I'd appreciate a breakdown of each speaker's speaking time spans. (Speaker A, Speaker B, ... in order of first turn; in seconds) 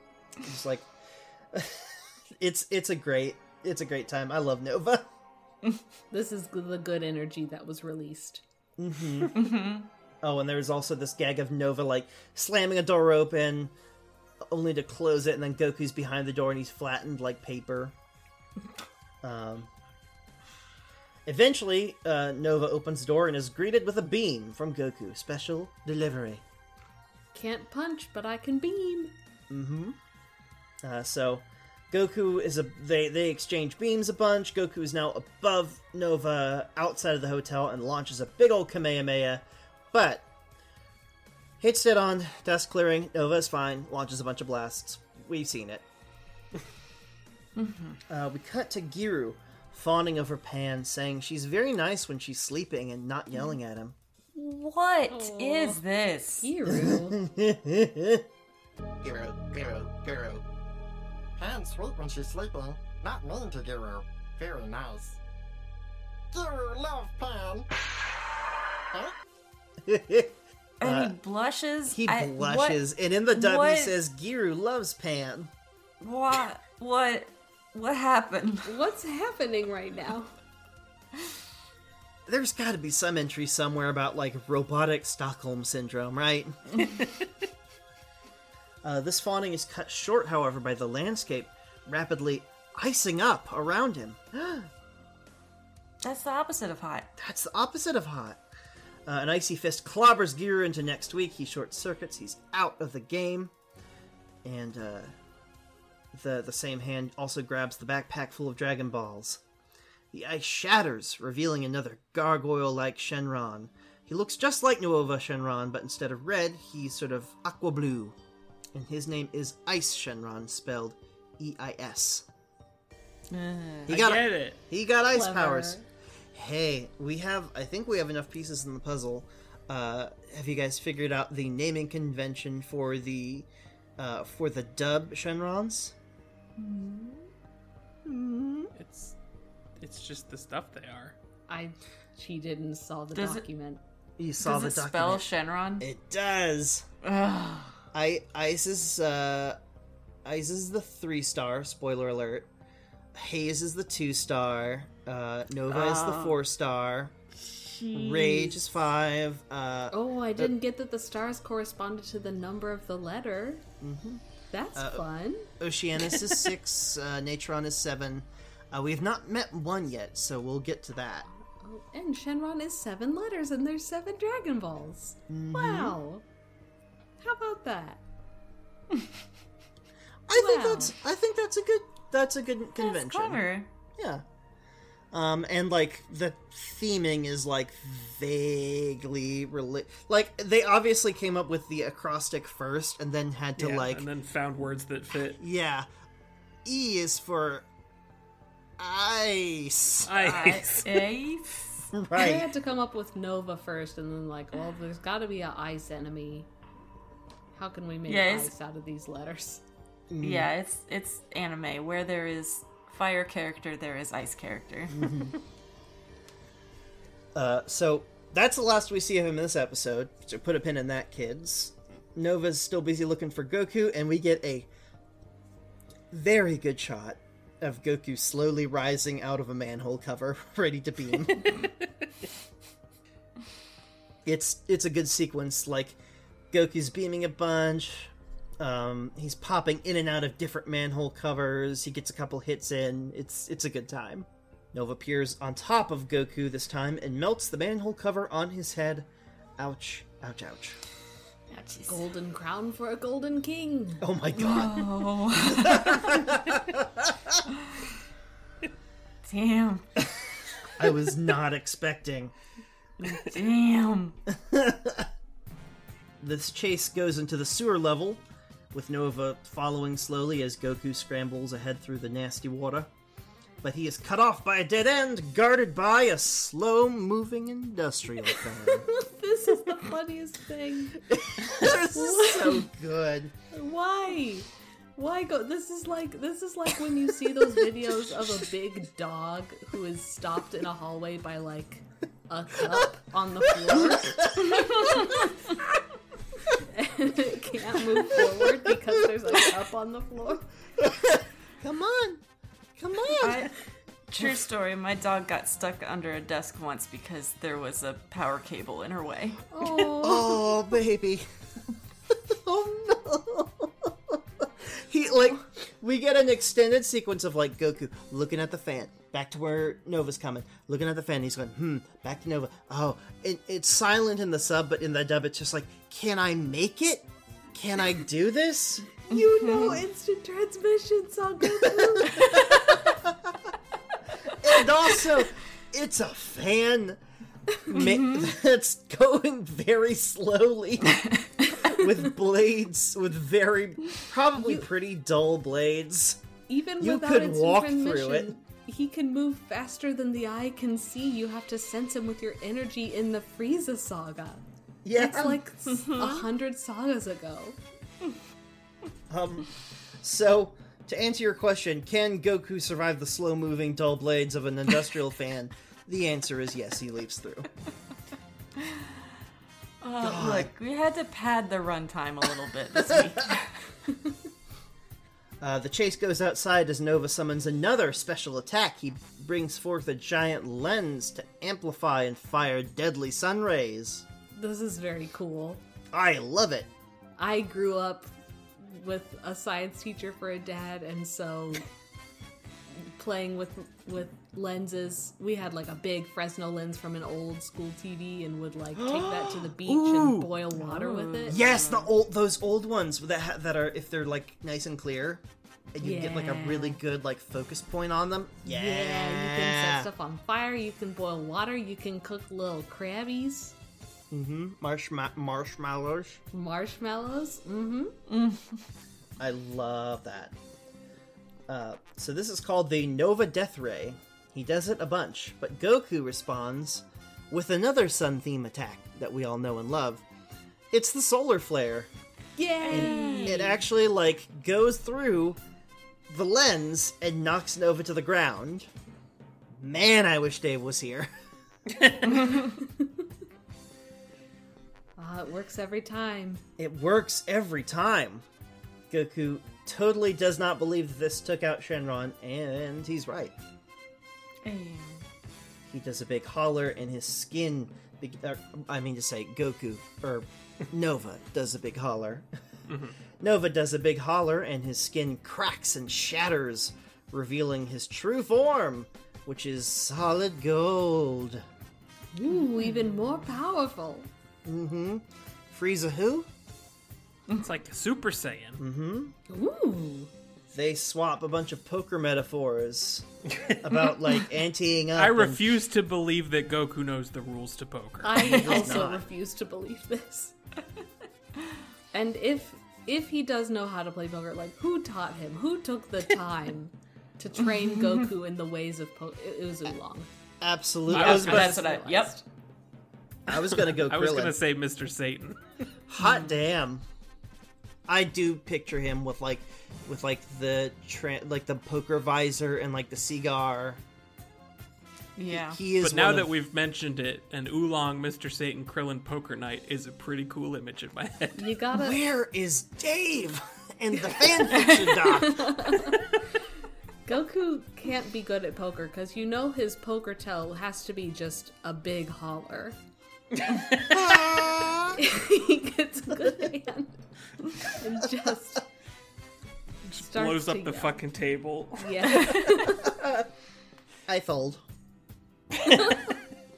Speaker A: 0.4-0.9, 1.5-5.1, 8.8-9.3, 10.2-13.7, 14.4-17.9, 19.2-19.7, 21.2-26.4, 29.5-30.0, 30.8-40.2, 41.6-45.8, 48.1-54.0, 56.7-58.2, 69.8-71.1, 71.9-75.5, 82.2-86.8, 88.8-94.7, 97.2-98.4, 99.0-103.5, 104.4-105.1, 106.1-109.4, 110.1-118.2, 118.7-122.2, 123.9-125.8, 126.3-135.9, 144.2-145.3, 145.8-146.8, 147.9-149.6, 150.2-152.5, 153.1-157.1, 157.9-160.5, 163.8-164.2, 164.8-165.0, 165.6-171.3, 175.3-175.9, 180.3-183.4, 184.0-184.2, 185.1-194.1, 195.3-195.9, 196.6-197.7, 198.8-200.2, 201.9-202.5, 210.1-210.5, 214.9-215.3, 217.3-224.7, 226.1-231.6, 234.2-236.0, 236.5-249.1, 249.6-250.8, 254.0-257.4, 260.8-262.3, 264.3-265.1, 266.2-268.2, 268.7-272.9, 273.6-278.9, 281.0-283.3, 293.5-295.1, 297.9-299.4, 300.8-302.2, 302.8-303.5, 310.0-311.2, 312.1-329.0, 331.6-333.4, 334.2-337.0, 337.7-341.1, 341.6-346.2, 346.8-348.3, 354.8-355.4, 359.1-367.5, 370.0-370.5, 375.4-384.1, 385.9-386.7, 398.7-400.3, 401.2-405.2, 405.7-409.9, 414.1-416.2, 419.2-420.3, 421.5-430.0, 430.7-431.9, 432.7-435.4, 436.1-438.7, 439.6-441.1, 446.6-448.2, 448.9-453.4, 455.7-462.3, 463.2-471.4, 474.4-476.3, 478.6-479.1, 480.5-483.1, 483.6-485.4, 488.2-489.0, 500.4-501.6, 503.3-504.4, 505.9-506.8, 507.9-513.8, 515.3-516.3, 521.7-526.0, 533.9-535.0, 536.1-536.5, 542.7-543.3, 544.1-544.6
Speaker B: 6.1-8.4, 27.3-29.1, 55.1-55.8, 56.4-57.2, 78.7-80.3, 125.1-125.8, 141.5-143.8, 159.9-163.6, 164.5-165.5, 171.6-176.2, 177.2-178.0, 180.3-180.9, 202.1-206.5, 207.6-209.6, 251.9-254.0, 278.7-282.7, 283.5-295.3, 296.5-300.4, 309.5-310.5, 329.1-332.6, 344.3-344.6, 346.5-354.4, 355.0-357.6, 384.3-385.6, 387.2-391.6, 392.8-401.4, 405.8-406.8, 408.4-413.5, 416.3-417.9, 432.4-433.6, 445.0-446.4, 472.1-474.1, 479.3-480.1, 488.0-490.3, 491.9-500.1, 500.9-502.2, 521.4-522.0, 525.2-526.1, 527.0-532.8, 534.9-537.0, 537.7-538.6, 539.8-541.0, 541.8-542.9
Speaker C: 9.3-9.9, 47.5-48.0, 54.4-56.5, 70.8-72.8, 73.3-74.0, 76.0-78.7, 96.0-97.1, 123.3-123.9, 136.6-137.3, 138.1-138.7, 143.1-143.4, 144.4-145.9, 147.0-147.8, 155.7-156.4, 157.5-158.5, 182.8-183.7, 200.2-201.9, 208.1-208.5, 210.2-215.1, 251.5-252.0, 254.3-256.2, 257.5-257.9, 259.2-260.0, 263.1-264.1, 303.2-303.5, 304.1-309.9, 329.4-329.8, 337.8-338.3, 368.6-369.0, 369.8-373.6, 400.6-401.9, 418.1-418.6, 432.6-433.5, 454.4-455.0, 488.2-488.8, 500.9-502.1, 506.0-506.3, 515.1-515.6, 542.1-542.5
Speaker D: 59.0-60.4, 61.4-65.2, 66.3-67.7
Speaker E: 123.9-124.6, 138.8-139.1, 139.8-141.2, 193.6-195.4, 200.0-200.9, 263.0-263.3, 462.7-462.9, 477.4-478.6, 484.9-488.2, 500.9-501.6, 503.3-505.4, 515.8-521.5, 539.9-542.3